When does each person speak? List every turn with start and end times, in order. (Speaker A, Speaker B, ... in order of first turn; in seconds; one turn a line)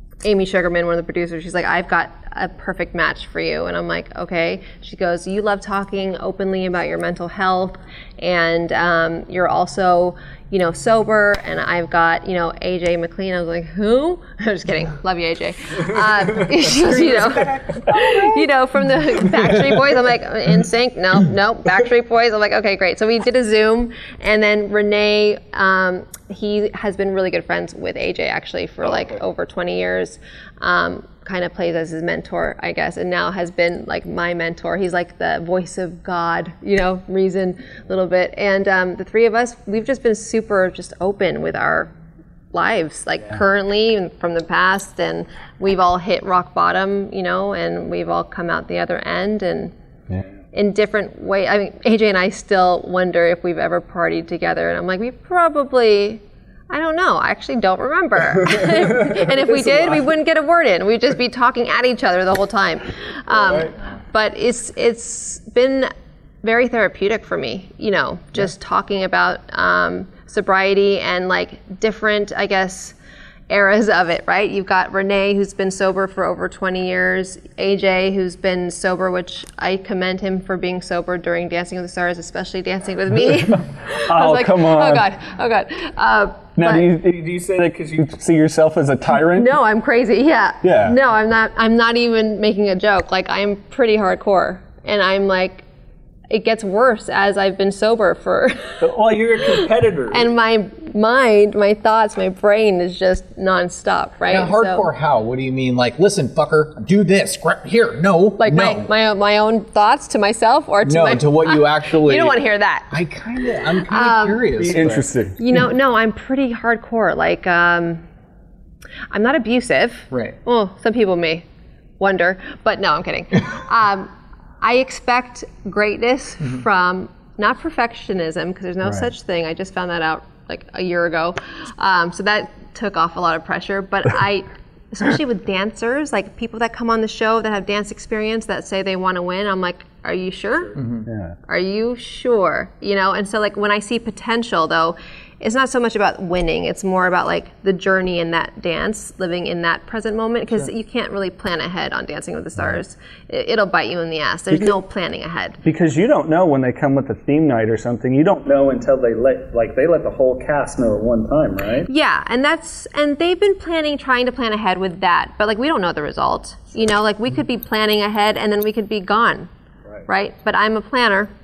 Speaker A: 0.2-41.9
Speaker B: 16.8-18.4
Speaker A: 42.5-49.7
Speaker A: 50.5-65.9
Speaker C: 58.5-60.1
Speaker A: 66.4-72.9
Speaker A: 73.5-86.9
Speaker C: 83.5-85.0
Speaker C: 86.6-89.5
Speaker A: 89.1-95.6
Speaker C: 90.6-91.0
Speaker A: 96.3-98.8
Speaker C: 98.8-100.3
Speaker A: 100.1-104.9
Speaker B: 104.3-108.9
Speaker A: 108.4-112.9
Speaker B: 110.8-112.4
Speaker B: 112.9-115.1
Speaker A: 113.7-114.7
Speaker C: 114.6-115.4
Speaker A: 115.4-118.0
Speaker A: 119.1-121.4
Speaker B: 120.1-120.4
Speaker A: 122.0-124.1
Speaker A: 124.6-140.7
Speaker B: 140.8-141.1
Speaker C: 141.0-141.3
Speaker A: 141.5-155.6
Speaker C: 152.6-152.8
Speaker C: 155.6-161.9
Speaker A: 161.9-169.5
Speaker A: 170.1-171.3